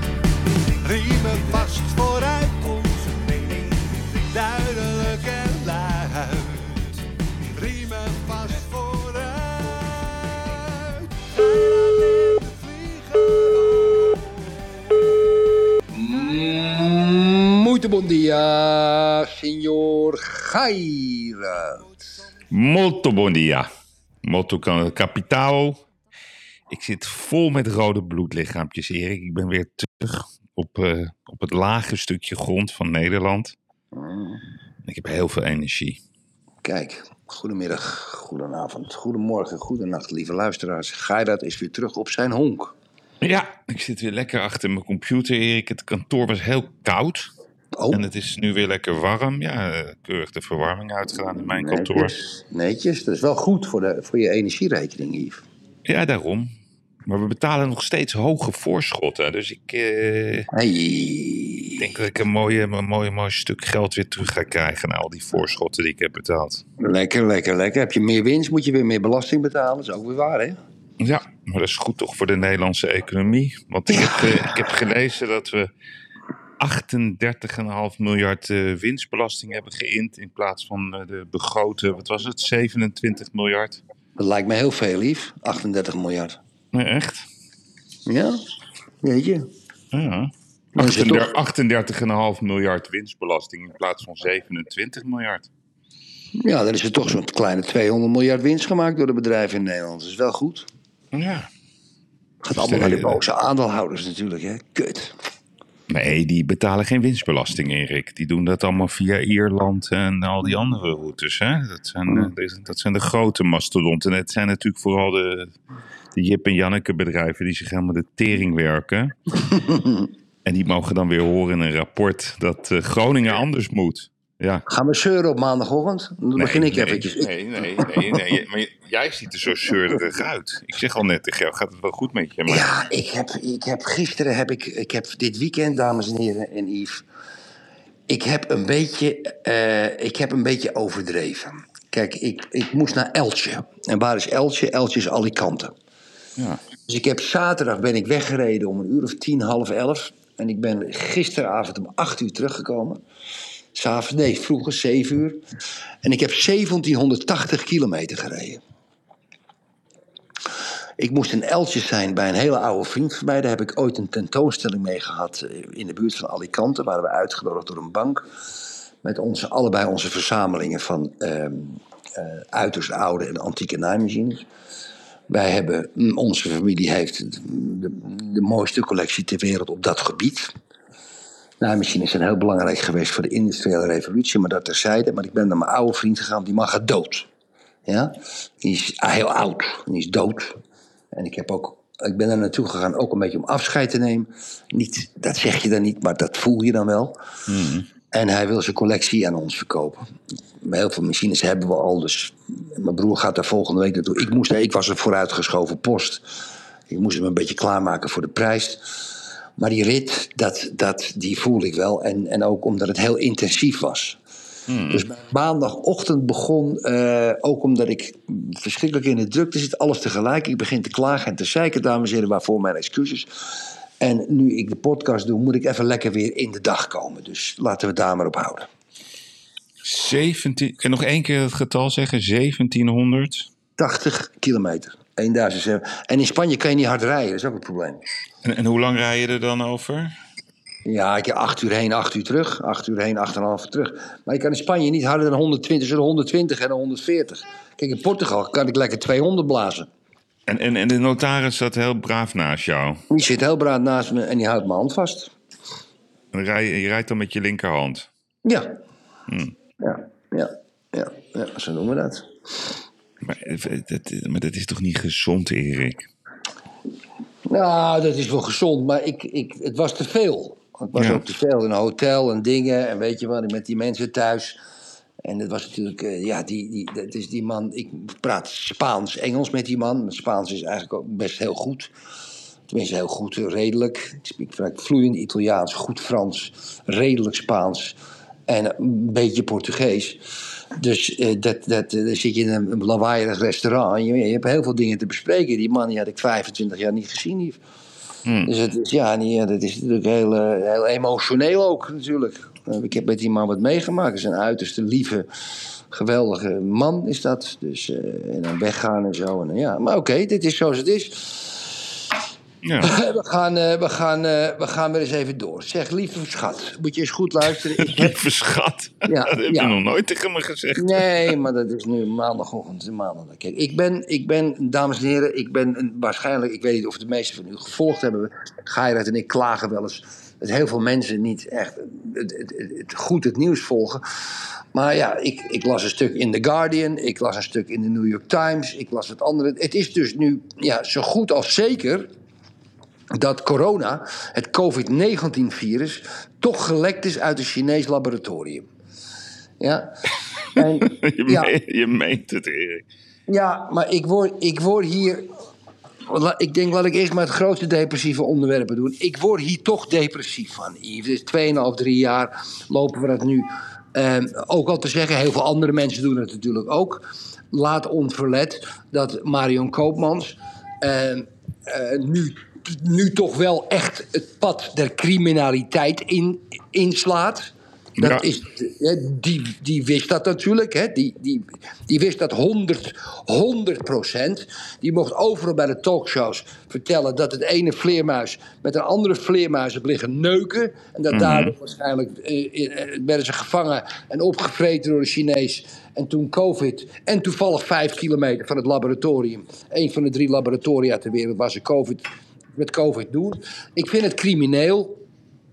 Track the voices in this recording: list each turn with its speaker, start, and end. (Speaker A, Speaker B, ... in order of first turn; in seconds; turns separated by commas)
Speaker A: 0.5-15.2, Speaker B: 15.9-21.8, Speaker C: 22.5-23.7, Speaker C: 24.2-25.8, Speaker C: 26.7-33.5, Speaker B: 33.9-34.4, Speaker C: 34.8-36.0, Speaker B: 36.6-42.7, Speaker C: 43.2-47.3, Speaker B: 47.7-48.0, Speaker C: 47.9-52.1, Speaker B: 51.5-55.4, Speaker C: 55.8-56.5, Speaker C: 57.0-60.5, Speaker B: 60.5-61.8, Speaker C: 61.8-66.6, Speaker B: 66.8-70.6, Speaker C: 71.0-75.7, Speaker C: 76.6-83.8, Speaker B: 84.2-86.4, Speaker C: 86.7-87.2, Speaker B: 88.0-88.4, Speaker B: 89.0-89.5, Speaker C: 89.9-95.5, Speaker B: 90.8-91.3, Speaker B: 96.4-100.7, Speaker C: 101.1-101.5, Speaker B: 102.4-105.1, Speaker C: 102.5-103.2, Speaker C: 105.9-115.5, Speaker C: 116.1-119.1, Speaker B: 119.5-120.0, Speaker C: 120.4-124.6, Speaker B: 124.7-128.1, Speaker C: 126.4-132.7, Speaker B: 132.5-137.0, Speaker B: 138.1-145.7, Speaker B: 146.9-153.0, Speaker B: 153.7-155.4, Speaker B: 156.0-158.6, Speaker B: 161.0-168.2, Speaker B: 169.0-174.4, Speaker B: 175.3-180.5, Speaker B: 181.6-187.3, Speaker B: 187.9-190.6, Speaker B: 191.1-197.2, Speaker C: 197.5-197.8, Speaker B: 198.1-200.0, Speaker B: 200.6-206.4, Speaker B: 206.9-214.2, Speaker C: 214.7-215.0, Speaker B: 214.9-228.7, Speaker C: 229.8-233.5, Speaker B: 233.8-238.1, Speaker C: 238.4-240.1, Speaker B: 240.8-249.9, Speaker C: 250.5-253.0, Speaker B: 253.1-255.3, Speaker C: 256.3-258.1, Speaker B: 258.4-258.7, Speaker C: 259.3-259.5, Speaker B: 259.8-262.3, Speaker C: 263.2-266.1, Speaker B: 267.4-274.6, Speaker C: 270.9-271.2, Speaker B: 275.2-281.9, Speaker B: 282.7-287.9, Speaker B: 288.5-290.2, Speaker B: 290.8-297.6, Speaker C: 298.2-298.5, Speaker B: 298.4-305.3, Speaker B: 305.9-311.9, Speaker C: 312.6-312.9, Speaker B: 312.8-318.1, Speaker C: 317.8-321.3, Speaker B: 319.1-319.8, Speaker B: 320.7-334.0, Speaker B: 334.7-342.1, Speaker B: 343.1-348.7, Speaker B: 349.6-351.5, Speaker C: 350.6-352.9, Speaker B: 353.3-355.3, Speaker B: 356.1-405.0, Speaker C: 378.0-378.2, Speaker C: 391.1-391.5